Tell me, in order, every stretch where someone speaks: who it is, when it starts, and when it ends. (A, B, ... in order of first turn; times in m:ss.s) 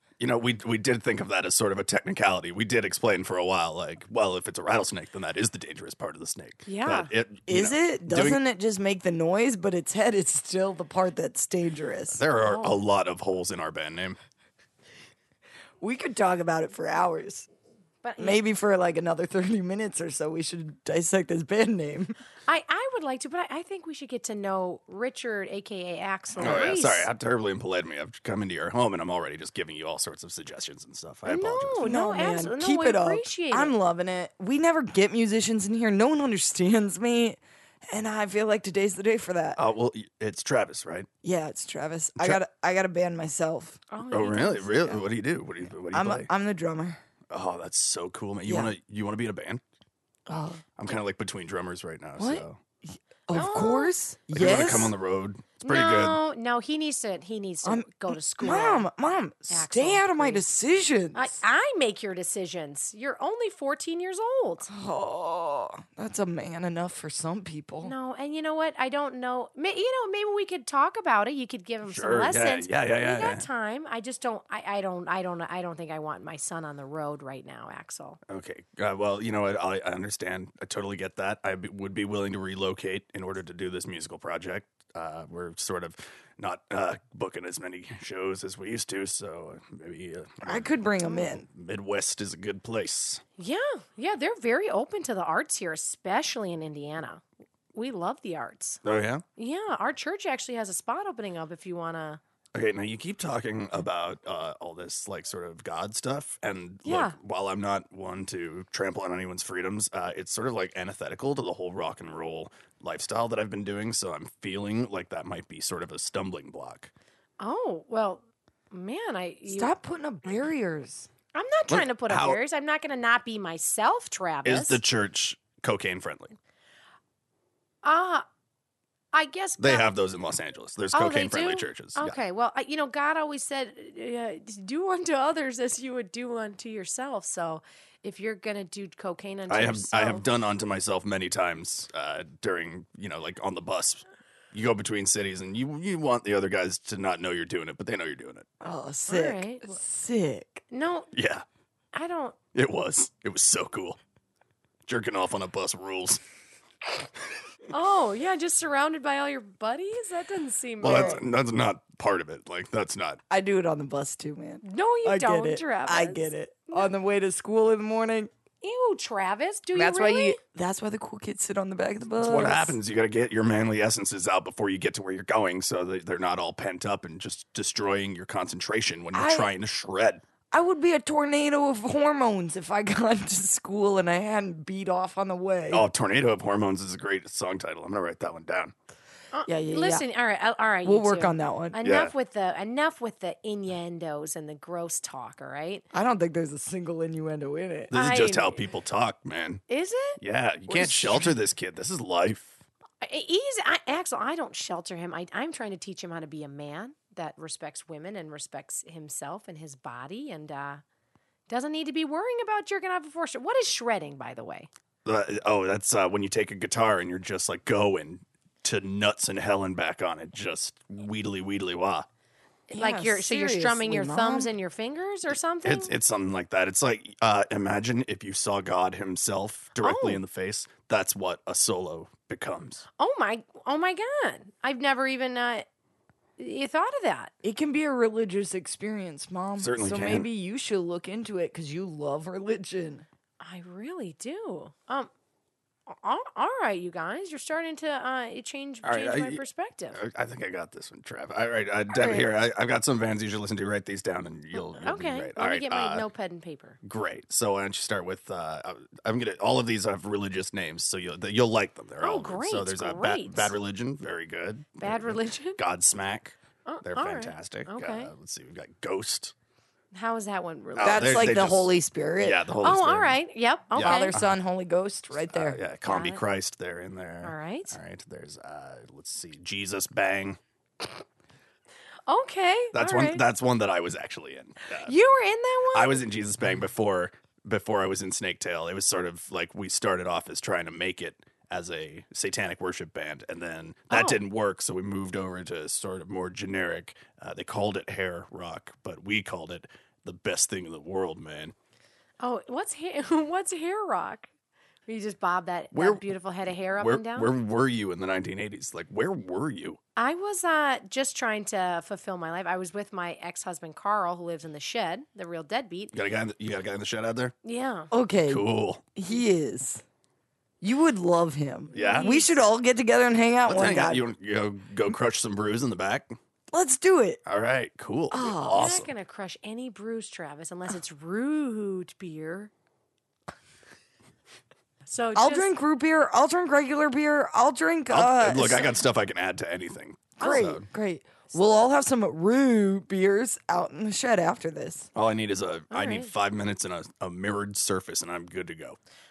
0:00.2-0:08.4 A
0:06.7-0:07.1 B
0:07.5-0:12.2 C
0:12.1-0:14.2 A
0:12.5-0:12.8 B
0:15.8-0:17.5 C
0:18.0-0:18.4 B
0:18.2-0:22.2 C
0:22.5-0:27.1 B
0:26.4-0:26.7 C
0:26.4-0:31.9 A
0:31.2-0:33.7 B
0:31.8-0:39.6 C
0:39.6-0:41.1 A
0:41.2-0:43.8 C
0:43.9-0:45.0 B
0:44.1-0:46.3 A
0:45.9-0:47.0 C
0:47.3-0:49.6 A
0:48.5-0:48.7 C
0:50.3-0:50.6 C
0:50.8-0:52.6 A
0:52.2-0:54.9 C
0:53.3-0:54.9 B
0:54.3-0:56.2 A
0:55.6-0:58.9 B
0:57.6-1:01.4 C
0:59.5-1:00.4 B
1:01.1-1:04.7 B
1:04.7-1:07.9 C
1:07.8-1:18.2 B
1:11.9-1:13.5 A
1:18.3-1:33.2 A
1:30.4-1:31.5 C
1:33.4-1:38.8 B
1:38.8-1:39.2 A
1:39.4-1:42.2 B
1:42.5-1:56.9 A
1:46.8-1:47.2 B
1:57.4-1:59.7 B
1:59.5-2:01.1 C
2:01.3-2:04.8 B
2:01.7-2:02.4 A
2:04.4-2:06.3 A
2:07.8-2:08.2 B
2:09.1-2:09.9 B
2:09.6-2:12.2 A
2:10.9-2:20.2 B
2:19.5-2:28.5 A
2:28.6-2:30.6 C
2:29.1-2:29.8 B
2:30.7-2:31.1 B
2:31.1-2:31.4 A
2:31.9-2:32.4 B
2:32.5-2:34.0 A
2:34.9-2:36.2 A
2:37.7-2:41.2 B
2:40.8-2:43.2 A
2:40.9-2:41.2 C
2:43.3-2:48.3 C
2:44.6-2:46.9 B
2:48.6-2:50.4 B
2:49.7-2:52.8 C
2:52.2-3:00.2 A
2:59.1-2:59.5 C
3:00.5-3:05.8 C
3:05.7-3:08.7 A
3:09.3-3:15.8 B
3:09.5-3:10.0 C
3:10.8-3:11.8 C
3:11.8-3:12.1 A
3:15.9-3:17.9 C
3:17.9-3:18.6 B
3:17.9-3:19.6 A
3:19.7-3:20.2 B
3:20.2-3:22.6 A
3:20.7-3:21.2 B
3:20.8-3:21.3 C
3:23.0-3:30.8 B
3:31.5-3:34.7 B
3:35.0-3:42.1 A
3:42.7-3:44.5 C
3:42.8-3:45.9 B
3:45.6-3:52.8 A
3:49.8-3:50.2 B
3:53.0-3:55.7 B
3:56.4-3:57.3 B
3:57.4-4:03.1 C
3:59.6-4:00.3 A
4:03.4-4:05.1 B
4:05.9-4:10.0 B
4:08.8-4:09.4 A
4:09.9-4:16.1 A
4:12.0-4:12.2 C
4:14.5-4:16.8 B
4:16.8-4:29.3 A
4:22.0-4:23.5 B
4:24.8-4:25.6 B
4:26.6-4:28.1 B
4:29.9-4:31.4 B
4:30.8-4:33.2 A
4:30.8-4:32.4 C
4:32.6-4:34.1 B
4:33.7-4:34.4 A
4:33.8-4:35.6 C
4:35.3-4:40.4 A
4:35.9-4:36.2 B
4:37.2-4:37.8 B
4:42.1-4:43.2 B
4:42.7-4:44.9 A
4:44.9-4:46.0 B
4:45.7-5:01.5 A
4:53.9-4:54.2 B
5:02.2-5:04.3 B
5:04.9-5:07.3 B
5:05.7-5:06.0 A
5:06.8-5:09.8 A
5:10.0-5:15.9 B
5:15.9-5:17.3 A
5:17.4-5:17.9 B
5:17.9-5:19.8 C
5:18.3-5:18.8 A
5:20.6-5:24.0 C
5:21.7-5:22.1 A
5:21.7-5:22.4 B
5:23.5-5:26.2 A
5:26.5-5:27.2 C
5:27.2-5:28.9 A
5:28.1-5:28.7 C
5:28.5-5:32.5 B
5:34.9-5:35.5 B
5:35.1-5:38.8 C
5:37.9-5:40.6 A
5:40.2-5:44.9 C
5:45.0-5:48.8 A
5:45.7-5:46.1 B